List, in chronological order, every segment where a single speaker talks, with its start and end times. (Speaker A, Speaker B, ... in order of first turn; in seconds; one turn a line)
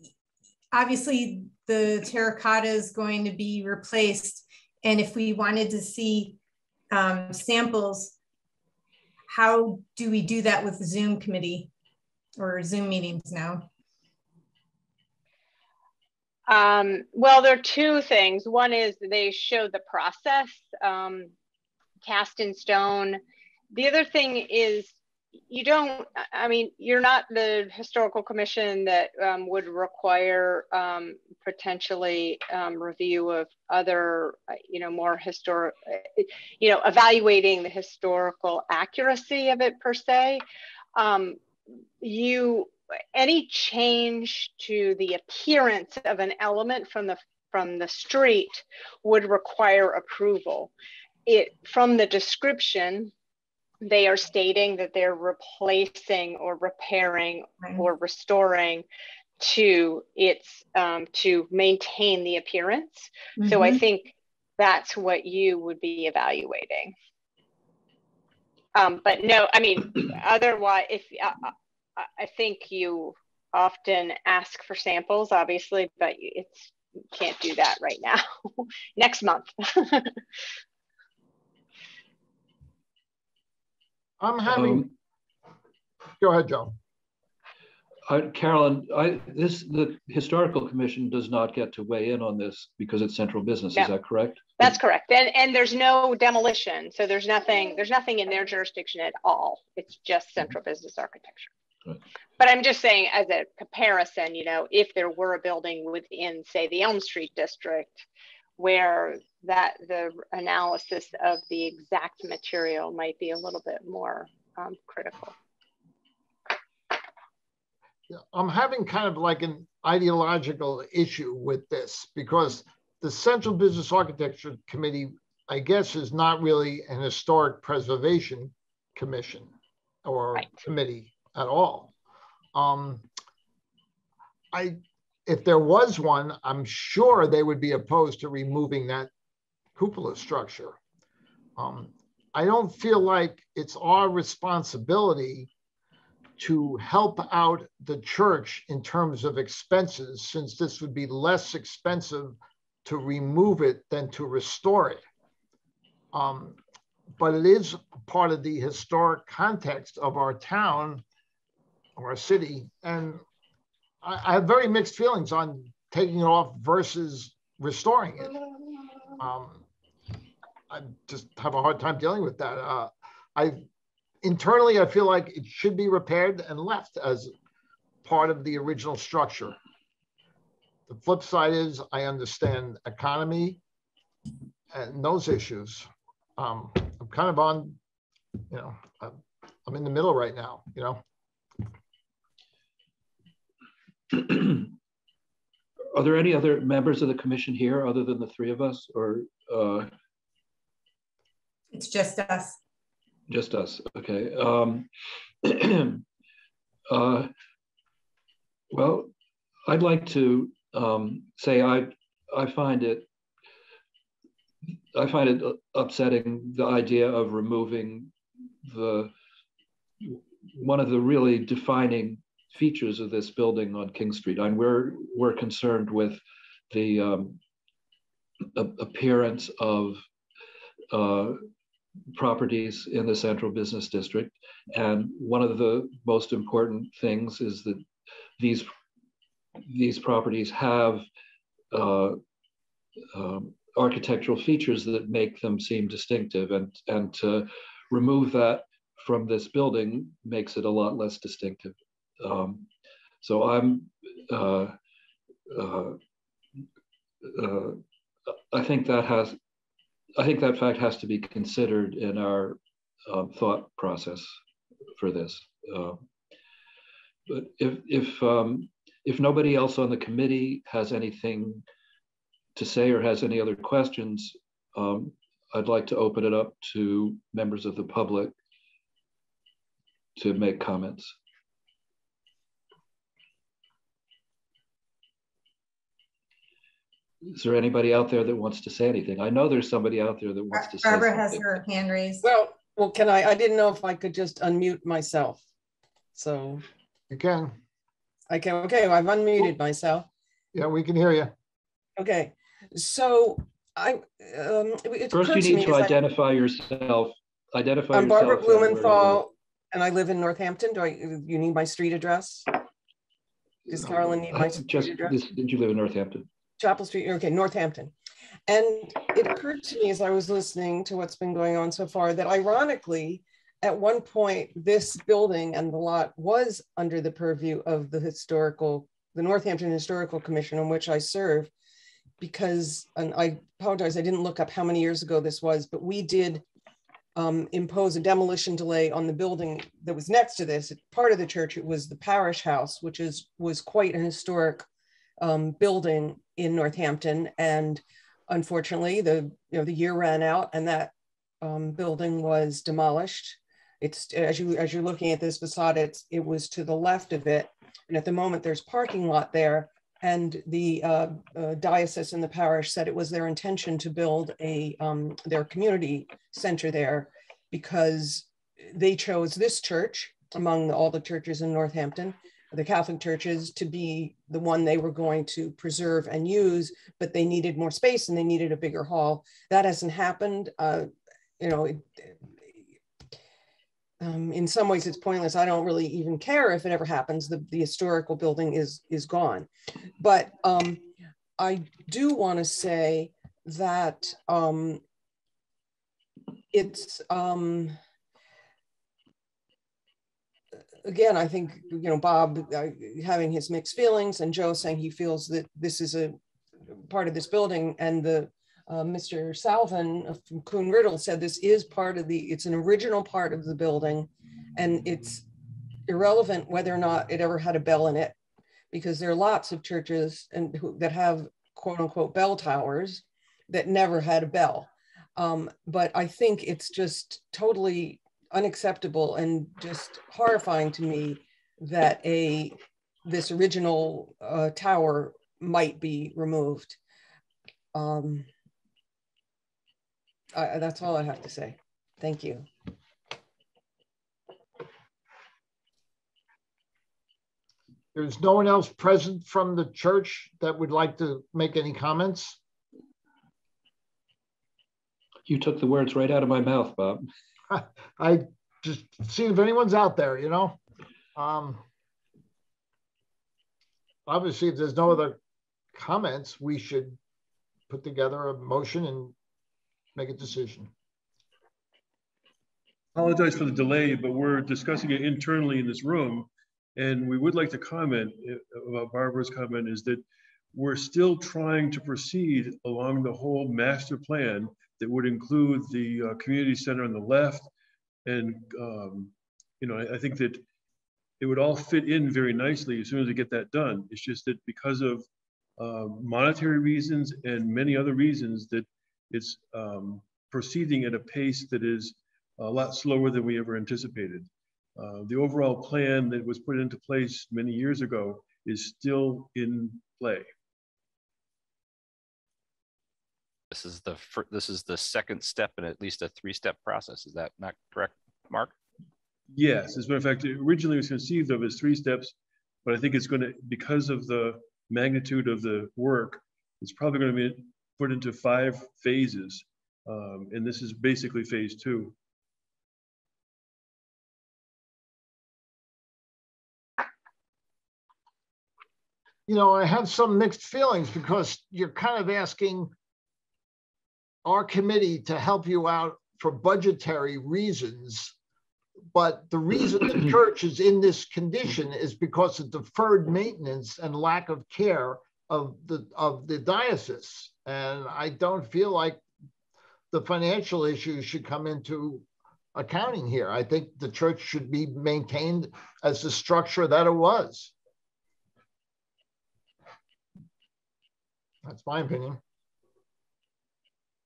Speaker A: 0.7-6.4
Speaker A: 6.9-8.1
Speaker A: 9.3-11.7
Speaker A: 12.4-13.7
Speaker B: 16.5-21.3
Speaker B: 22.0-25.0
Speaker B: 25.5-40.4
Speaker B: 41.0-41.4
Speaker B: 42.0-50.7
Speaker B: 51.3-53.1
Speaker B: 53.8-58.9
Speaker A: 57.6-57.9
Speaker B: 59.4-67.0
Speaker A: 63.4-63.8
Speaker B: 68.8-80.2
Speaker C: 84.2-84.9
Speaker D: 84.5-84.9
Speaker C: 86.2-86.8
Speaker D: 88.1-94.7
Speaker B: 94.6-101.5
Speaker B: 102.4-108.1
Speaker B: 108.6-115.3
Speaker C: 118.1-129.5
Speaker C: 130.0-131.9
Speaker C: 132.6-133.1
Speaker C: 134.5-139.1
Speaker C: 139.8-140.8
Speaker C: 141.6-145.5
Speaker C: 146.4-155.0
Speaker C: 156.1-156.6
Speaker C: 157.2-161.0
Speaker C: 162.0-163.2
Speaker C: 164.0-168.4
Speaker C: 169.2-169.6
Speaker C: 170.7-173.6
Speaker C: 174.2-177.3
Speaker C: 178.0-179.6
Speaker C: 180.9-183.6
Speaker C: 184.7-187.8
Speaker C: 188.5-191.0
Speaker D: 194.1-194.8
Speaker D: 195.9-199.9
Speaker A: 201.7-202.6
Speaker D: 203.3-204.9
Speaker D: 205.4-206.1
Speaker D: 206.9-207.3
Speaker D: 208.7-209.1
Speaker D: 209.7-213.1
Speaker D: 214.9-218.1
Speaker D: 218.6-219.1
Speaker D: 220.0-227.4
Speaker D: 228.5-230.0
Speaker D: 230.9-231.4
Speaker D: 232.1-238.7
Speaker D: 239.6-241.1
Speaker D: 241.7-242.2
Speaker D: 243.1-252.7
Speaker D: 253.2-254.8
Speaker D: 255.5-256.0
Speaker D: 257.2-257.8
Speaker D: 258.5-259.4
Speaker D: 260.2-264.4
Speaker D: 265.0-266.0
Speaker D: 267.3-271.6
Speaker D: 272.6-278.4
Speaker D: 280.2-281.1
Speaker D: 287.3-291.6
Speaker A: 290.5-292.2
Speaker E: 292.2-295.4
Speaker E: 296.1-296.6
Speaker C: 297.1-297.5
Speaker E: 298.3-300.1
Speaker C: 300.5-301.3
Speaker E: 302.0-306.0
Speaker D: 305.1-309.2
Speaker E: 307.9-312.5
Speaker D: 313.7-316.3
Speaker E: 313.7-315.2
Speaker E: 316.6-317.9
Speaker E: 318.5-331.5
Speaker E: 332.2-336.4
Speaker E: 337.1-344.7
Speaker E: 345.2-380.9
Speaker E: 381.4-382.1
Speaker E: 384.0-389.5
Speaker E: 390.0-390.8
Speaker E: 391.4-394.8
Speaker E: 396.5-397.8
Speaker E: 400.8-406.2
Speaker E: 406.7-415.2
Speaker E: 415.9-418.1
Speaker E: 418.7-432.6
Speaker E: 433.1-436.8
Speaker E: 437.7-438.3
Speaker E: 440.4-442.5
Speaker C: 447.9-452.4
Speaker D: 455.3-457.1
Speaker C: 457.5-460.6
Speaker C: 461.2-461.6
Speaker C: 464.1-465.2
Speaker C: 465.7-467.0
Speaker C: 467.7-469.1
Speaker C: 469.9-470.7
Speaker F: 473.0-480.0
Speaker F: 480.5-487.5
Speaker F: 488.1-490.4
Speaker F: 491.2-495.1
Speaker F: 495.6-510.3
Speaker G: 513.5-518.5
Speaker F: 519.3-532.0
Speaker C: 539.3-542.7
Speaker C: 544.2-548.1
Speaker C: 548.9-559.0
Speaker C: 559.9-567.5
Speaker C: 571.5-572.2